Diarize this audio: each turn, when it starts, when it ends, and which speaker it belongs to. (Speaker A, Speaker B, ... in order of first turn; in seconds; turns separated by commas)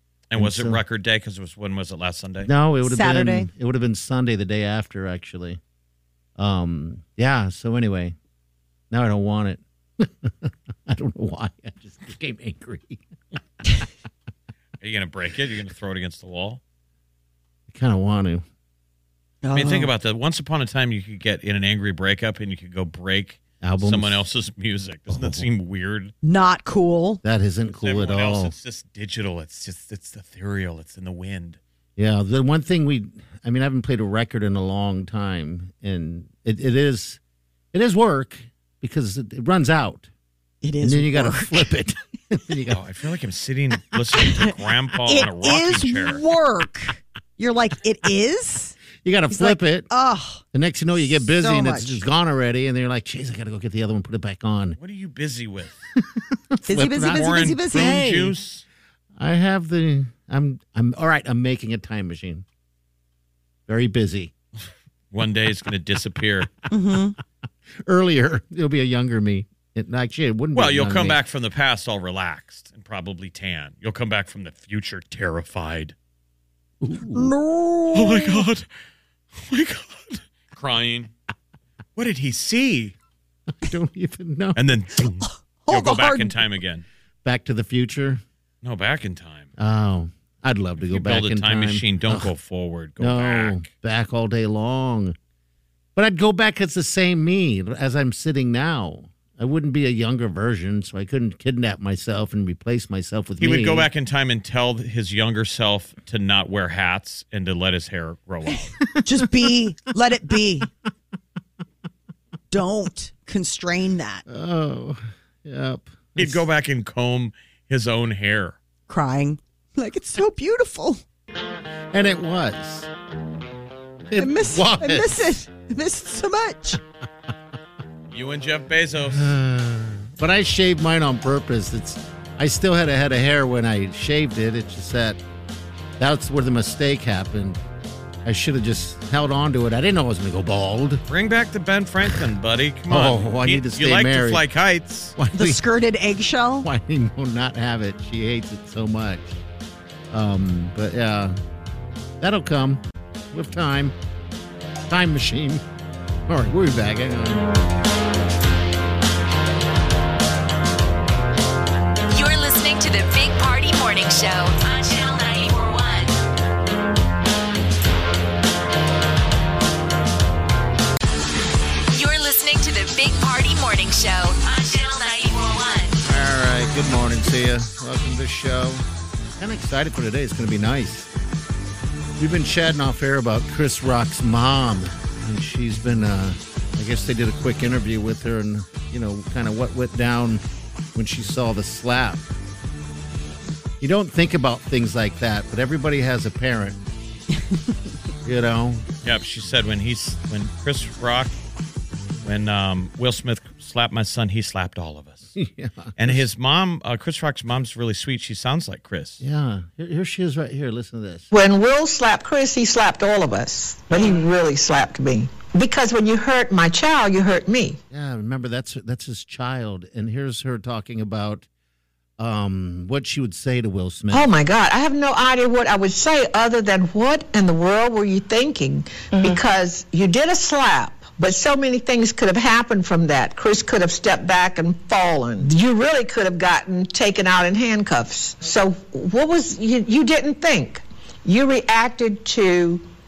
Speaker A: 0.3-2.5, Speaker B: 0.3-0.8, Speaker B: 2.4-5.6, Speaker C: 2.8-3.5, Speaker B: 6.4-8.2, Speaker B: 8.9-13.0, Speaker A: 14.8-16.6, Speaker B: 17.7-18.4, Speaker C: 19.4-19.9, Speaker A: 19.5-26.1, Speaker B: 23.6-24.2, Speaker B: 25.1-25.4, Speaker C: 26.2-27.2, Speaker B: 27.2-28.5, Speaker A: 27.7-31.6, Speaker B: 32.0-37.2, Speaker B: 37.7-40.1, Speaker C: 40.6-41.7, Speaker B: 40.8-42.8, Speaker A: 42.7-46.2, Speaker C: 45.0-48.8, Speaker B: 49.0-49.9, Speaker C: 49.3-50.4, Speaker B: 50.5-54.8, Speaker C: 51.2-52.0, Speaker A: 54.8-55.8, Speaker B: 56.0-58.3, Speaker C: 56.6-58.0, Speaker A: 57.0-58.6, Speaker B: 59.2-62.4, Speaker B: 63.7-64.3, Speaker A: 65.1-66.5, Speaker C: 66.7-67.2, Speaker B: 67.8-71.2, Speaker A: 70.5-75.9, Speaker B: 76.8-77.3, Speaker C: 77.1-78.4, Speaker A: 77.9-78.7, Speaker A: 79.3-81.1, Speaker A: 82.0-82.9, Speaker B: 83.5-84.6, Speaker A: 84.5-86.8, Speaker C: 85.2-86.4, Speaker B: 87.2-88.2, Speaker A: 88.6-89.5, Speaker B: 89.6-92.3, Speaker A: 90.8-93.6, Speaker B: 93.0-95.2, Speaker B: 96.0-103.9, Speaker A: 103.4-108.8, Speaker C: 109.0-110.7, Speaker C: 112.5-114.2, Speaker B: 114.3-116.4, Speaker A: 116.2-118.5, Speaker C: 118.9-121.0, Speaker B: 121.9-122.9, Speaker B: 124.1-125.3, Speaker C: 124.2-126.8, Speaker A: 128.1-129.3, Speaker B: 129.1-135.2, Speaker B: 136.0-137.6, Speaker B: 138.2-141.0, Speaker A: 141.1-145.1, Speaker B: 142.9-144.4, Speaker B: 145.2-145.6, Speaker C: 145.3-146.7, Speaker B: 146.6-149.4, Speaker B: 150.1-151.4, Speaker B: 152.2-153.9, Speaker B: 154.9-155.6, Speaker B: 156.3-157.5, Speaker D: 162.1-166.2, Speaker D: 171.9-176.0, Speaker B: 176.0-178.8, Speaker B: 179.4-181.1, Speaker B: 182.2-190.4, Speaker B: 190.9-192.3, Speaker B: 193.8-196.8, Speaker C: 197.3-197.8, Speaker B: 198.2-198.9, Speaker A: 199.0-201.3, Speaker A: 202.2-205.3, Speaker B: 205.3-206.2, Speaker A: 206.0-209.2, Speaker B: 209.2-211.3, Speaker E: 211.3-217.8, Speaker B: 217.9-221.5, Speaker B: 222.2-224.3, Speaker E: 224.1-242.8